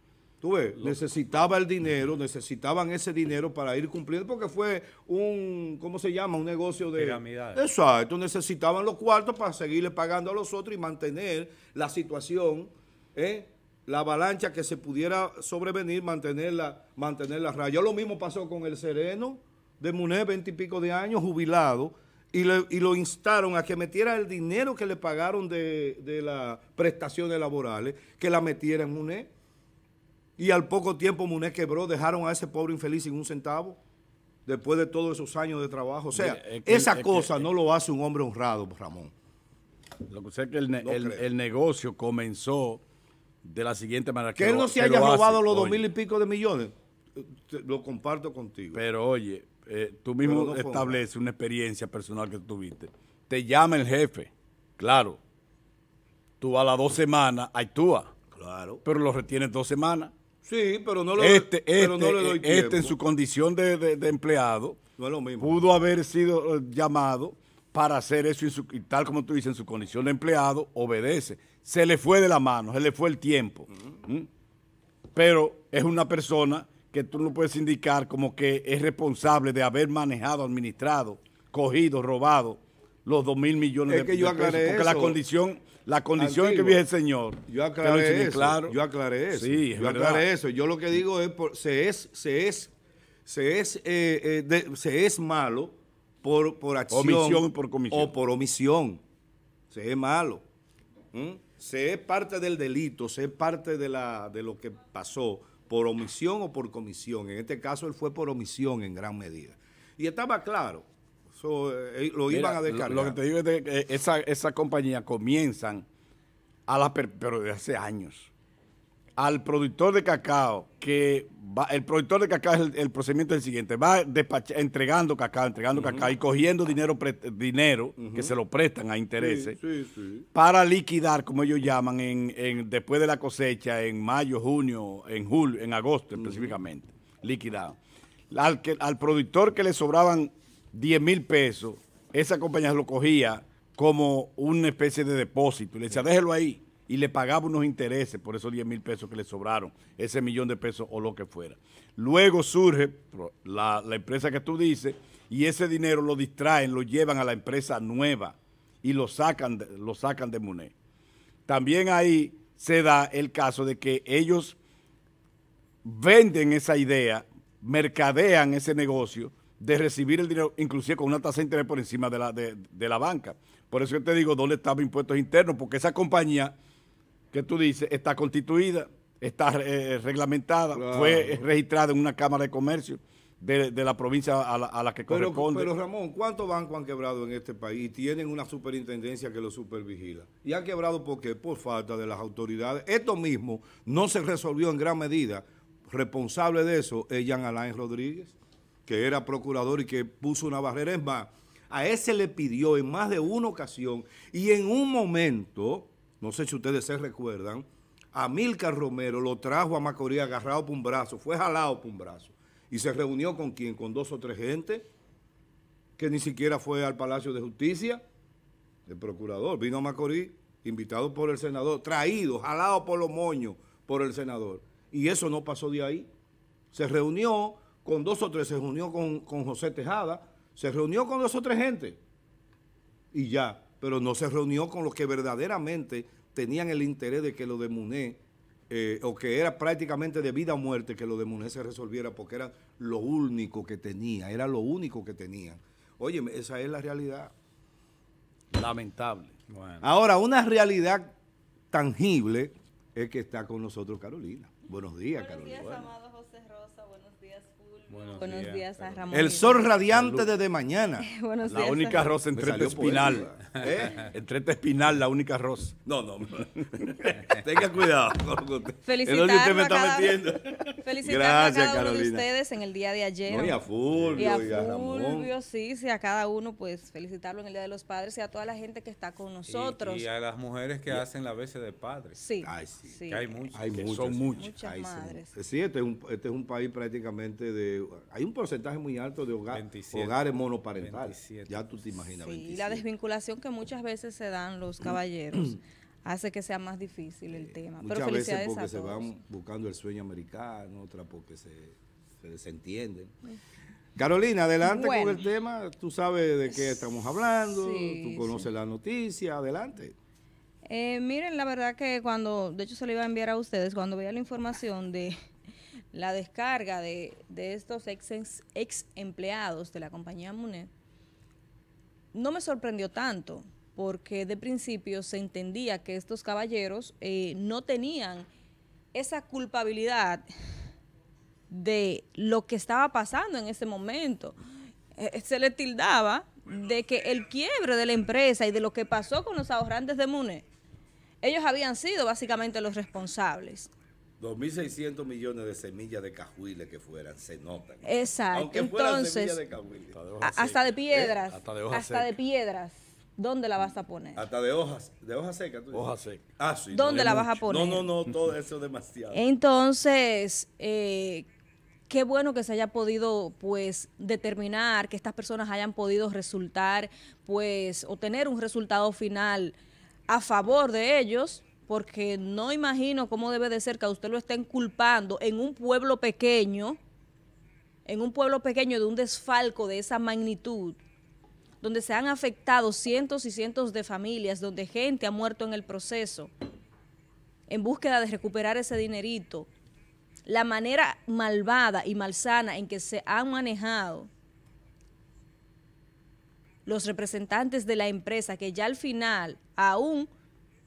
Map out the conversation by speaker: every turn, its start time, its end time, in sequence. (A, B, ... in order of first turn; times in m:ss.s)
0:00.4-0:29.3 A
0:07.0-0:07.6 B
0:30.4-0:33.8 A
0:34.5-0:39.1 A
0:36.1-0:37.5 C
0:40.1-0:42.8 C
0:40.8-0:41.2 A
0:43.4-0:45.9 C
0:44.4-0:48.8 A
0:48.7-0:55.2 C
0:50.2-0:51.0 A
0:56.4-0:58.1 C
0:58.3-0:58.8 A
0:58.8-1:00.1 C
1:00.4-1:03.0 A
1:01.2-1:04.8 C
1:05.0-1:05.7 A
1:05.4-1:14.3 C
1:15.2-1:28.8 C
1:23.9-1:25.2 A
1:26.2-1:26.8 A
1:27.5-1:32.7 A
1:29.3-1:30.3 C
1:33.3-1:39.0 A
1:36.9-1:38.1 C
1:39.7-1:40.4 A
1:41.1-1:53.2 A
1:52.3-1:55.8 C
1:56.7-1:58.3 C
1:59.2-2:09.6 C
2:05.8-2:06.1 A
2:08.0-2:08.3 A
2:09.2-2:10.3 A
2:10.3-2:17.8 C
2:16.2-2:16.5 A
2:18.3-2:40.7 C
2:41.5-2:44.6 C
2:45.8-2:56.6 C
2:57.3-3:05.7 C
3:00.7-3:01.4 A
3:05.1-3:18.4 A
3:18.9-3:34.9 A
3:36.0-3:38.0 A
3:38.9-3:46.1 A
3:46.7-3:52.0 A
3:53.1-4:07.3 A
4:08.5-4:09.4 C
4:09.5-4:09.8 B
4:09.8-4:11.2 A
4:11.7-4:15.9 A
4:15.1-4:19.7 D
4:17.9-4:19.4 B
4:19.1-4:21.1 A
4:19.9-4:20.3 C
4:21.0-4:22.1 D
4:21.4-4:25.8 C
4:22.3-4:24.0 A
4:25.9-4:32.3 A
4:26.8-4:27.1 C
4:28.8-4:30.2 D
4:29.1-4:29.6 C
4:30.7-4:33.6 D
4:33.3-4:35.3 A
4:33.9-4:34.5 C
4:34.2-4:40.0 D
4:39.5-4:42.2 B
4:42.2-4:43.5 D
4:42.4-4:43.0 A
4:43.1-4:43.8 B
4:43.5-4:52.8 A
4:43.8-4:44.5 C
4:44.4-4:45.3 D
4:49.5-4:50.2 B
4:50.8-4:51.9 B
4:52.2-4:59.1 D
4:57.5-5:03.1 A
5:04.0-5:10.0 A
5:04.6-5:05.2 D
5:07.5-5:08.5 D
5:10.7-5:15.2 D
5:15.9-5:20.7 D
5:22.1-5:28.3 D
5:28.9-5:30.3 D
5:31.5-5:34.4 D
5:35.0-5:40.4 D
5:41.2-5:43.7 D
5:44.2-5:50.0 A
5:47.8-5:49.4 D
5:49.9-5:52.1 C
5:50.2-5:54.2 D
5:54.2-5:59.2 A
5:55.7-5:56.2 C
5:56.7-5:57.9 D
5:56.9-5:57.3 C
5:59.1-6:01.3 D
6:01.9-6:09.6 D
6:10.1-6:16.8 D
6:17.9-6:20.8 D
6:21.6-6:26.3 D
6:27.5-6:29.5 D
6:30.3-6:34.1 D
6:36.7-6:40.1 D